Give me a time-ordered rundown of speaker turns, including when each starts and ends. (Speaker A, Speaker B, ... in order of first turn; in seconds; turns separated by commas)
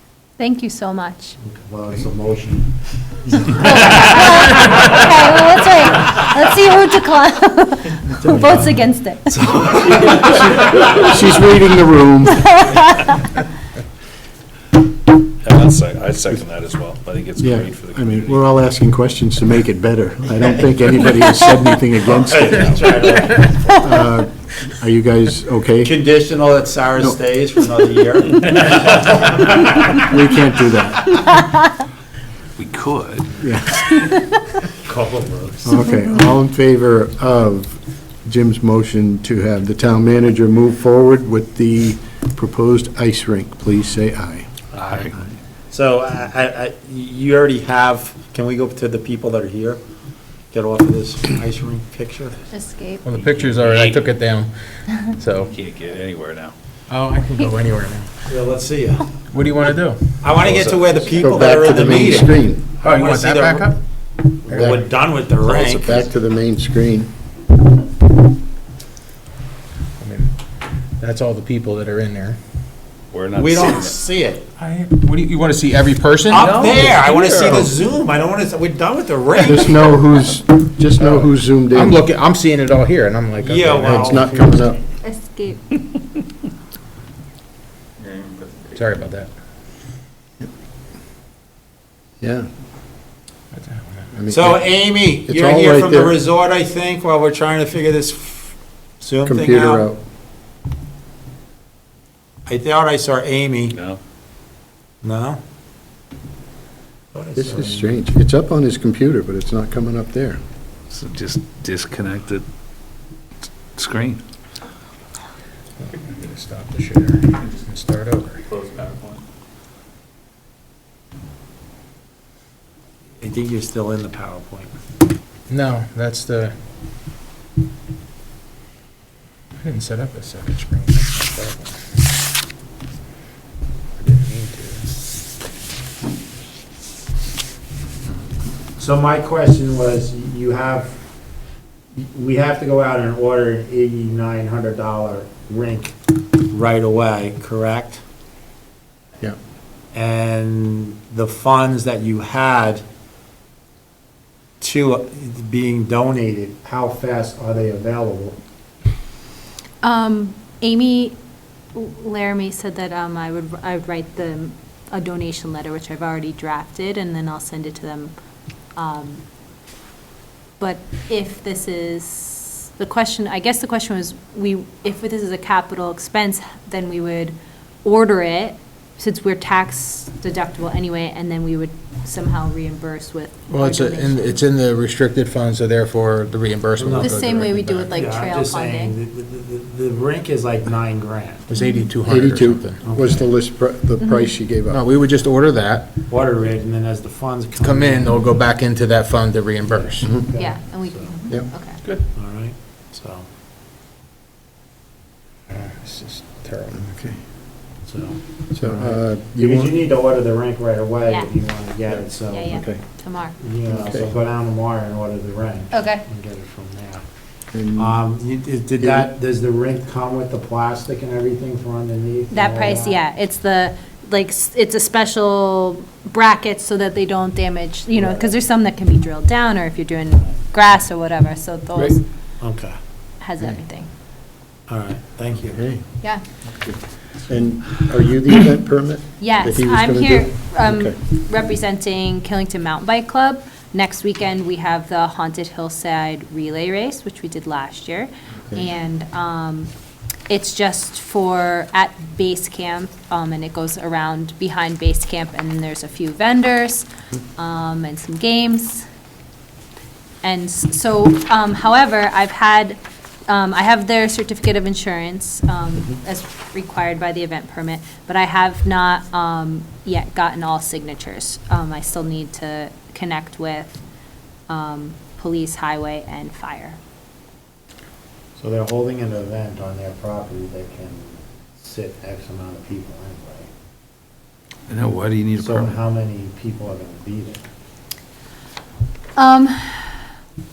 Speaker A: 0.4-1.4, Speaker B: 1.4-2.7, Speaker B: 3.2-3.9, Speaker A: 3.3-9.5, Speaker B: 8.2-8.8, Speaker B: 9.3-11.2, Speaker C: 10.1-12.6, Speaker A: 12.4-13.2, Speaker D: 15.4-18.4, Speaker C: 17.4-22.8, Speaker B: 20.4-24.1, Speaker D: 22.3-22.9, Speaker C: 23.8-25.9, Speaker B: 25.8-30.4, Speaker C: 30.0-31.1, Speaker D: 32.6-33.4, Speaker C: 33.4-33.9, Speaker B: 34.7-35.9, Speaker C: 35.6-44.5, Speaker B: 44.7-45.1, Speaker D: 44.8-45.1, Speaker B: 45.7-49.8, Speaker B: 50.5-52.4, Speaker A: 52.5-53.1, Speaker E: 53.0-55.5, Speaker D: 53.1-54.1, Speaker D: 55.5-56.5, Speaker E: 56.9-58.1, Speaker B: 58.3-59.1, Speaker E: 59.3-60.3, Speaker B: 60.2-63.7, Speaker D: 60.3-61.3, Speaker C: 61.2-62.7, Speaker E: 62.8-63.8, Speaker B: 64.4-66.0, Speaker E: 64.5-64.8, Speaker C: 64.5-64.9, Speaker D: 65.4-66.1, Speaker C: 65.7-67.1, Speaker E: 70.0-70.3, Speaker E: 71.0-72.4, Speaker D: 73.1-74.0, Speaker B: 73.4-74.5, Speaker E: 74.6-77.7, Speaker B: 76.3-80.0, Speaker D: 76.3-77.7, Speaker C: 79.4-82.0, Speaker E: 81.0-84.7, Speaker B: 83.4-84.3, Speaker C: 83.8-84.8, Speaker A: 85.0-85.7, Speaker E: 88.7-89.3, Speaker C: 92.2-92.5, Speaker E: 93.5-94.1, Speaker C: 94.1-94.7, Speaker B: 94.3-99.9, Speaker C: 95.2-96.2, Speaker C: 99.2-100.0, Speaker B: 102.5-103.8, Speaker D: 103.7-104.0, Speaker B: 105.0-105.4, Speaker B: 107.1-108.0, Speaker C: 107.3-110.4, Speaker D: 110.9-112.4, Speaker D: 113.7-114.2, Speaker E: 115.8-118.4, Speaker D: 118.5-119.2, Speaker B: 123.2-124.8, Speaker E: 125.5-126.5, Speaker E: 129.6-131.8, Speaker E: 134.0-134.9, Speaker B: 138.8-141.0, Speaker B: 141.9-145.9, Speaker B: 146.5-148.0, Speaker B: 149.9-152.8, Speaker B: 154.6-158.4, Speaker A: 159.8-161.2, Speaker A: 161.8-168.1, Speaker A: 168.8-169.2, Speaker A: 170.6-184.4, Speaker E: 183.5-187.9, Speaker B: 186.8-187.2, Speaker A: 187.0-188.9, Speaker B: 187.8-191.5, Speaker E: 191.5-192.9, Speaker A: 191.6-191.9, Speaker C: 192.0-194.8, Speaker B: 192.8-193.3, Speaker A: 194.0-194.3, Speaker E: 194.7-195.9, Speaker B: 196.1-198.2, Speaker E: 197.6-200.1, Speaker B: 199.7-201.1, Speaker A: 200.3-201.8, Speaker B: 202.1-203.2, Speaker E: 205.5-206.8, Speaker C: 206.8-207.2, Speaker B: 207.8-208.2, Speaker C: 208.5-209.8, Speaker B: 209.4-212.6, Speaker A: 212.3-213.3, Speaker C: 212.4-212.8, Speaker B: 213.4-217.0, Speaker C: 213.6-214.1, Speaker A: 215.7-216.0, Speaker C: 217.5-218.0, Speaker B: 217.8-223.0, Speaker C: 218.8-219.1, Speaker A: 222.3-232.0, Speaker B: 227.9-228.3, Speaker B: 232.4-232.8, Speaker A: 233.2-233.9, Speaker B: 234.7-235.6, Speaker C: 235.5-235.8, Speaker C: 236.5-240.9, Speaker A: 239.2-249.7, Speaker A: 250.3-258.8, Speaker A: 260.2-273.8, Speaker A: 274.5-276.8, Speaker B: 278.4-283.5, Speaker D: 284.7-285.8, Speaker B: 285.4-287.4, Speaker A: 289.2-290.1